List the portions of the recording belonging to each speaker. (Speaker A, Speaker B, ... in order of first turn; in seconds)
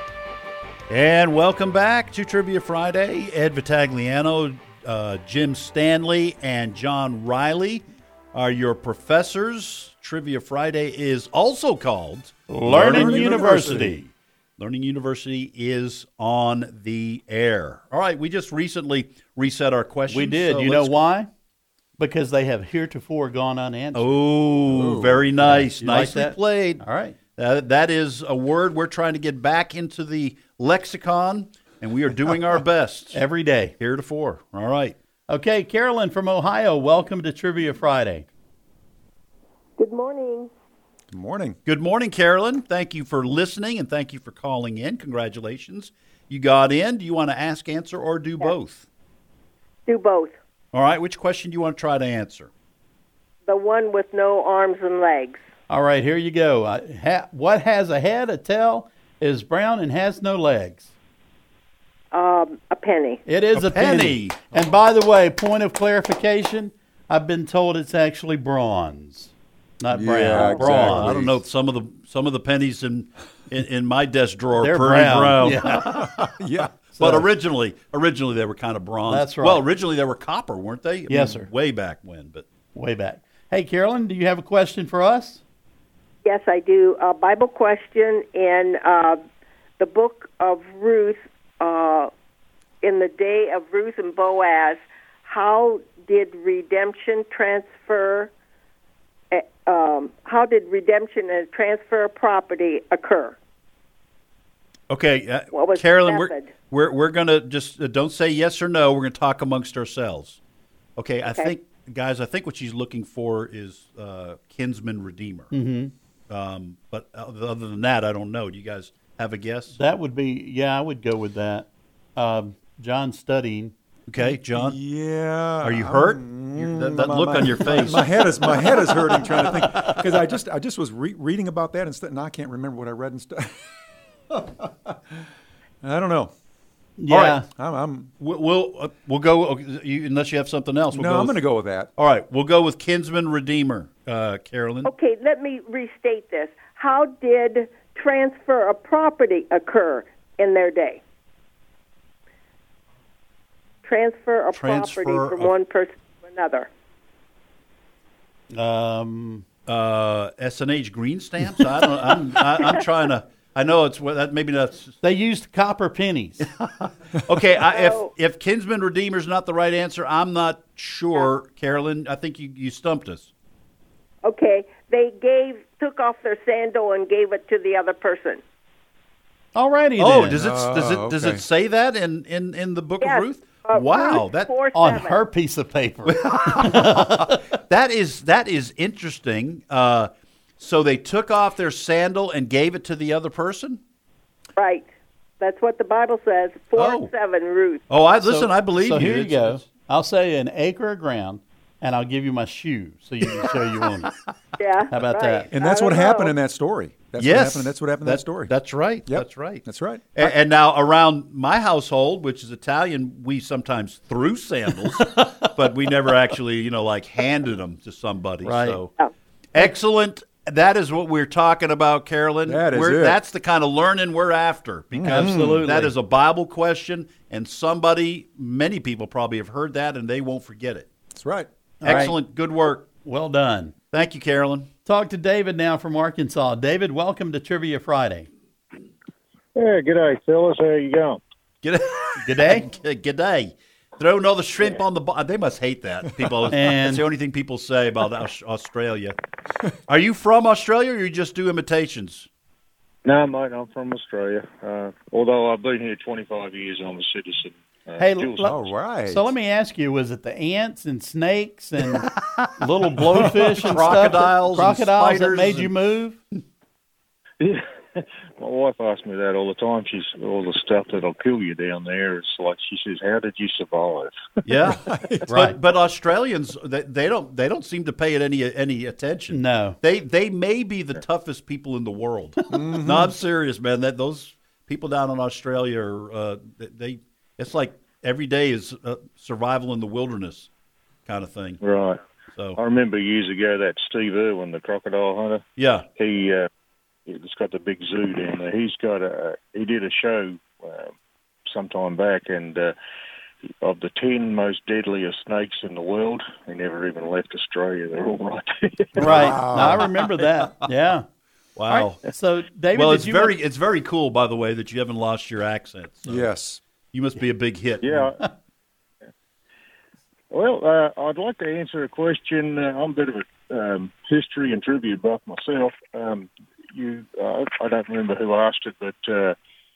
Speaker A: 0.9-14.0, 14.6-20.9, 23.9-26.8, 27.4-33.2, 33.8-35.0, 41.6-48.8, 50.7-52.5, 63.5-64.4, 70.1-76.3, 77.0-82.4, 104.9-110.4, 111.0-115.5, 116.3-119.8, 124.1-124.8, 125.6-128.1, 137.1-137.4, 138.2-141.4, 142.0-144.9, 154.5-155.5, 159.7-164.9, 166.4-173.3, 180.0-184.5, 186.1-193.8, 196.8-197.1, 197.9-199.6, 207.2-209.6, 210.2-218.9, 219.5-230.9, 231.8-232.9, 233.9-234.7, 241.6-249.2, 249.9-252.3, 262.1-265.7, 274.5-290.5, 291.1-291.6, 295.6-295.9, 309.1-309.9, 311.6-312.0, 312.7-316.3, 316.9-318.1
Speaker B: 12.5-14.1, 20.1-21.3, 22.0-24.1, 25.4-27.1, 33.1-33.7, 35.3-38.3, 55.7-60.9, 63.2-71.2, 74.6-76.0, 77.0-77.2, 79.1-79.6, 81.1-81.5, 82.7-85.4, 115.5-115.9, 119.7-123.7, 137.0-137.4, 158.5-159.4, 165.0-166.4, 179.5-180.4, 184.7-187.4, 198.2-204.1, 204.9-205.5, 218.4-218.8, 225.0-225.9, 231.8-232.2, 233.0-233.7, 234.8-238.3, 242.2-242.7, 246.5-247.0, 258.0-258.6, 259.1-266.2, 275.3-275.6, 279.3-279.8, 309.0-311.1, 311.7-313.4
Speaker C: 12.7-13.9, 24.7-25.3, 41.1-41.6, 69.9-71.4, 75.8-76.7, 124.2-133.6, 134.3-135.2, 135.8-136.3, 137.5-138.1, 140.9-141.9, 180.3-181.4, 205.5-208.5, 209.1-210.3, 222.4-223.2, 224.9-225.7, 231.1-231.5, 258.4-259.3, 274.9-275.2, 282.5-283.1, 309.0-309.8, 316.0-316.6
Speaker D: 39.8-40.5, 49.9-50.3, 53.5-55.4, 62.1-63.2, 86.2-89.2, 89.8-92.1, 92.8-98.3, 99.3-103.4, 105.5-106.5, 111.2-111.5, 144.8-151.0, 153.8-156.7, 167.7-168.1, 174.2-178.4, 183.0-185.2, 194.6-194.9, 195.4-197.8, 204.6-206.3
Speaker E: 239.5-241.2, 253.0-258.5, 267.4-274.1, 291.6-292.0, 292.6-295.4, 296.0-296.5, 297.1-300.9, 301.5-302.7, 303.6-309.3, 317.8-318.2, 320.3-329.4